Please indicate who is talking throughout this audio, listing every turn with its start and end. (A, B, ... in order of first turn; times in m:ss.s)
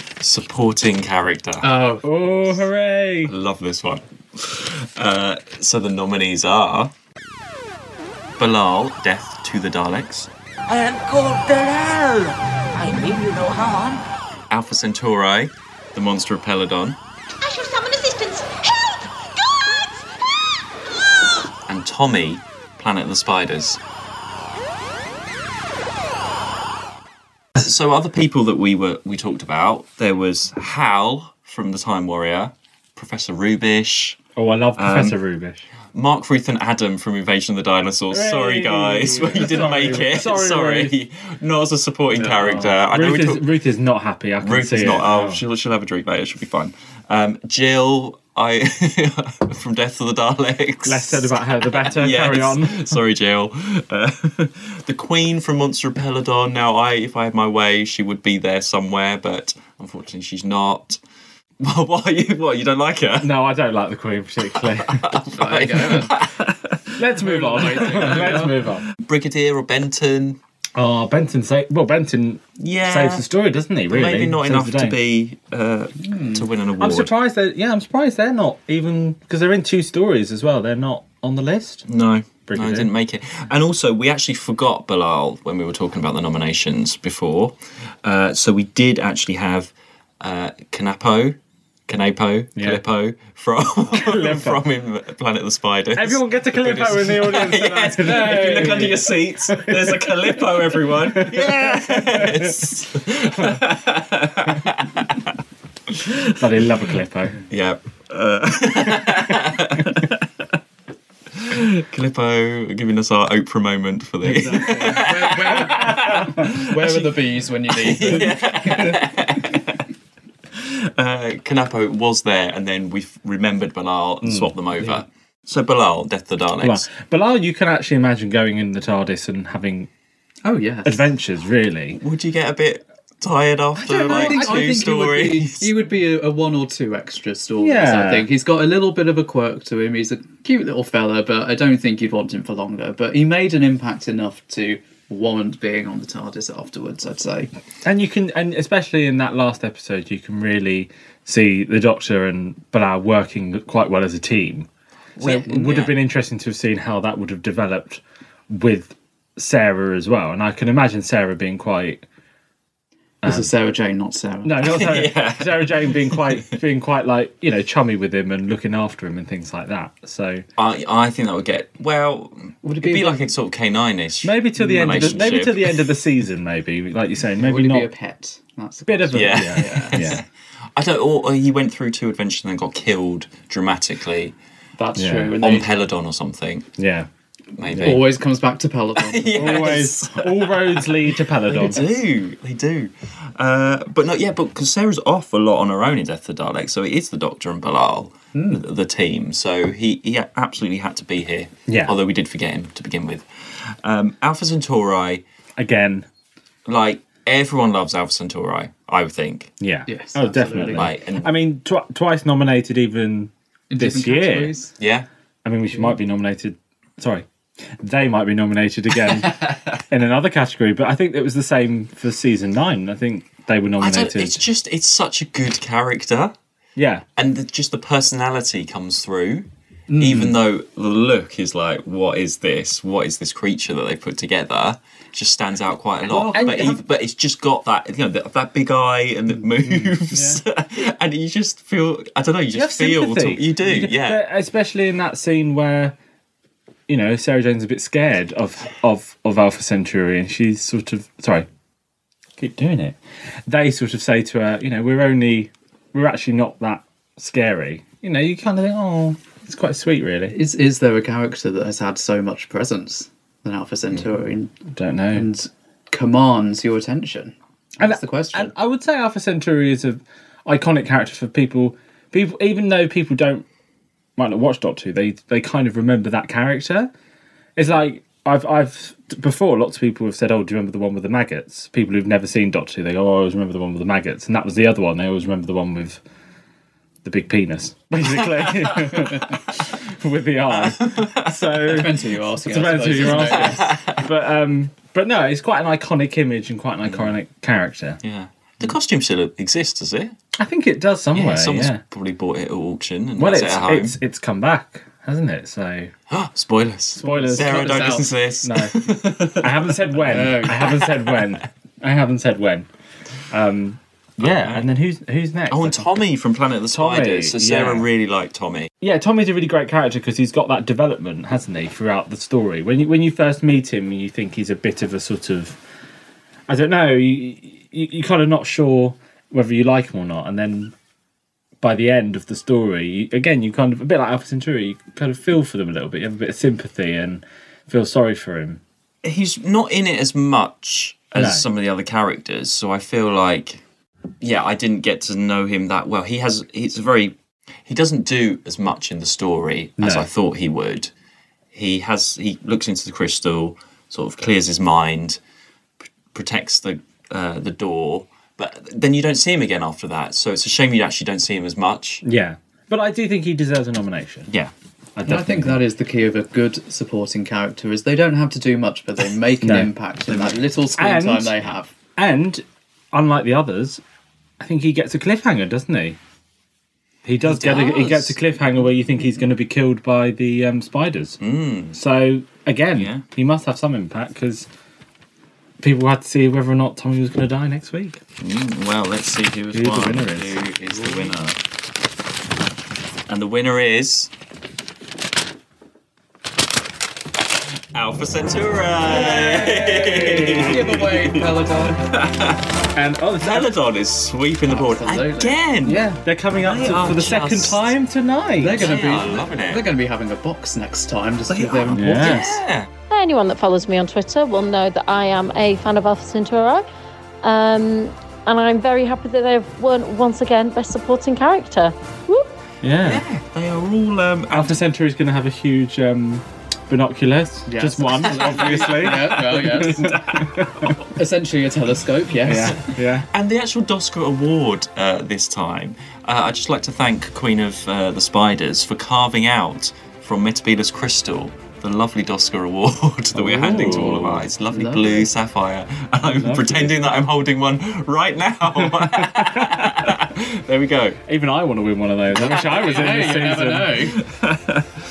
0:00.2-0:01.7 A
0:01.6-0:02.1 B
0:02.0-0:03.3 C
0:03.2-0:06.9 A
0:08.4-0:10.3 A
0:10.7-0:14.0 D
0:14.5-0:17.0 A
0:17.4-0:19.8 E
0:21.7-0:23.8 A
0:27.6-0:34.2 A
0:34.4-0:35.6 C
0:34.8-0:35.2 A
0:35.9-0:43.5 A
0:38.1-0:40.9 C
0:42.2-0:42.7 B
0:42.8-0:45.4 C
0:44.4-1:01.0 A
0:50.8-0:52.9 C
1:01.6-1:03.4 A
1:03.2-1:05.1 C
1:04.6-1:07.0 A
1:05.3-1:06.2 B
1:07.0-1:08.8 C
1:07.2-1:08.6 B
1:07.6-1:08.4 A
1:08.9-1:10.4 A
1:10.7-1:15.0 C
1:12.6-1:13.2 A
1:13.9-1:17.1 A
1:16.0-1:16.4 B
1:16.8-1:21.8 C
1:21.9-1:45.3 A
1:22.5-1:22.9 C
1:32.6-1:32.8 C
1:33.9-1:34.6 C
1:36.0-1:42.5 C
1:45.9-1:46.3 A
1:46.4-1:47.4 C
1:47.5-1:50.3 A
1:51.3-1:57.2 A
1:54.2-1:56.4 C
1:54.7-1:59.0 B
1:57.7-1:59.8 A
2:00.5-2:06.9 A
2:04.2-2:04.9 C
2:06.6-2:09.9 C
2:10.4-2:11.0 B
2:10.8-2:12.0 C
2:12.0-2:15.7 A
2:13.8-2:14.8 C
2:13.8-2:27.5 B
2:17.6-2:18.3 C
2:27.8-2:34.7 C
2:35.2-2:36.0 A
2:35.2-2:42.0 C
2:43.2-2:44.6 B
2:43.2-2:43.5 C
2:44.4-2:50.4 C
2:44.6-2:46.5 A
2:50.6-2:55.9 A
2:52.6-2:53.3 B
2:54.2-2:57.9 C
2:54.8-2:55.3 B
2:57.3-3:00.0 B
2:58.8-3:00.2 C
2:59.1-3:04.4 A
3:04.8-3:05.7 B
3:05.0-3:05.4 C
3:05.4-3:06.7 A
3:06.8-3:07.1 C
3:07.6-3:08.1 A
3:07.7-3:07.9 C
3:07.8-3:09.8 B
3:09.0-3:25.2 A
3:09.3-3:11.8 C
3:18.3-3:18.6 B
3:21.7-3:21.9 C
3:25.6-3:26.1 C
3:26.6-3:29.5 A
3:29.6-3:34.5 C
3:29.9-3:30.9 B
3:30.6-3:31.3 A
3:33.7-3:34.7 B
3:34.8-3:35.1 A
3:35.4-3:37.2 C
3:37.8-3:44.4 C
3:43.8-3:46.3 A
3:46.8-3:47.0 C
3:47.2-4:04.2 A
3:49.9-3:50.4 B
3:56.1-3:56.8 C
3:59.8-4:00.4 C
4:02.5-4:06.0 C
4:06.9-4:11.5 C
4:12.4-4:20.4 C
4:20.3-4:24.5 B
4:24.7-4:25.3 C
4:25.1-4:28.5 B
4:27.8-4:33.4 C
4:34.2-4:36.9 C
4:37.6-4:46.0 C
4:47.0-4:51.9 C
4:48.2-4:48.7 A
4:50.5-4:51.8 A
4:51.7-4:53.8 B
4:52.4-4:58.0 C
4:52.9-4:54.0 A
4:56.8-4:57.1 A
4:58.0-5:00.1 A
5:00.4-5:01.8 C
5:01.1-5:04.0 A
5:03.2-5:05.9 C
5:06.1-5:11.4 A
5:07.0-5:12.7 C
5:07.0-5:08.1 B
5:10.1-5:10.8 B
5:13.3-5:15.8 C
5:14.2-5:14.6 A
5:15.5-5:18.7 A
5:16.7-5:17.8 C
5:18.8-5:25.6 C
5:26.5-5:30.7 C
5:31.6-5:38.6 C
5:39.0-5:43.6 A
5:41.1-5:41.4 C
5:44.2-5:50.9 A
5:49.8-5:50.1 C
5:51.5-5:55.2 A
5:56.1-6:02.0 A
6:02.0-6:04.3 C
6:05.0-6:05.6 C
6:05.0-6:11.7 B
6:09.4-6:09.7 C
6:10.1-6:10.4 A
6:10.8-6:11.4 C
6:12.0-6:13.8 C
6:14.4-6:16.0 C
6:17.0-6:21.2 C
6:17.2-6:18.2 A
6:21.2-6:21.8 A
6:21.7-6:24.5 C
6:22.7-6:23.0 A
6:25.6-6:28.0 C
6:28.2-6:31.4 A
6:29.5-6:30.4 C
6:33.1-6:34.1 A
6:37.7-6:42.4 A
6:38.9-6:41.8 B
6:39.6-6:40.7 C
6:42.7-6:43.5 C
6:43.2-6:47.7 A
6:44.4-6:45.4 B
6:45.6-6:48.6 C
6:48.4-6:52.3 B
6:48.5-6:49.6 A
6:51.3-6:52.7 A
6:51.7-6:52.4 C
6:52.9-6:56.6 F
6:57.2-7:02.3 F
7:02.6-7:03.0 C
7:02.8-7:04.6 A
7:04.3-7:10.7 C
7:07.5-7:09.9 B
7:08.0-7:10.9 A
7:11.0-7:12.6 B
7:12.2-7:13.1 C
7:12.3-7:31.0 A
7:23.1-7:24.2 C
7:23.4-7:25.1 B
7:26.0-7:26.9 C
7:28.6-7:29.9 C
7:31.0-7:34.0 C
7:32.1-7:34.0 B
7:32.2-7:32.6 A
7:34.0-7:34.7 A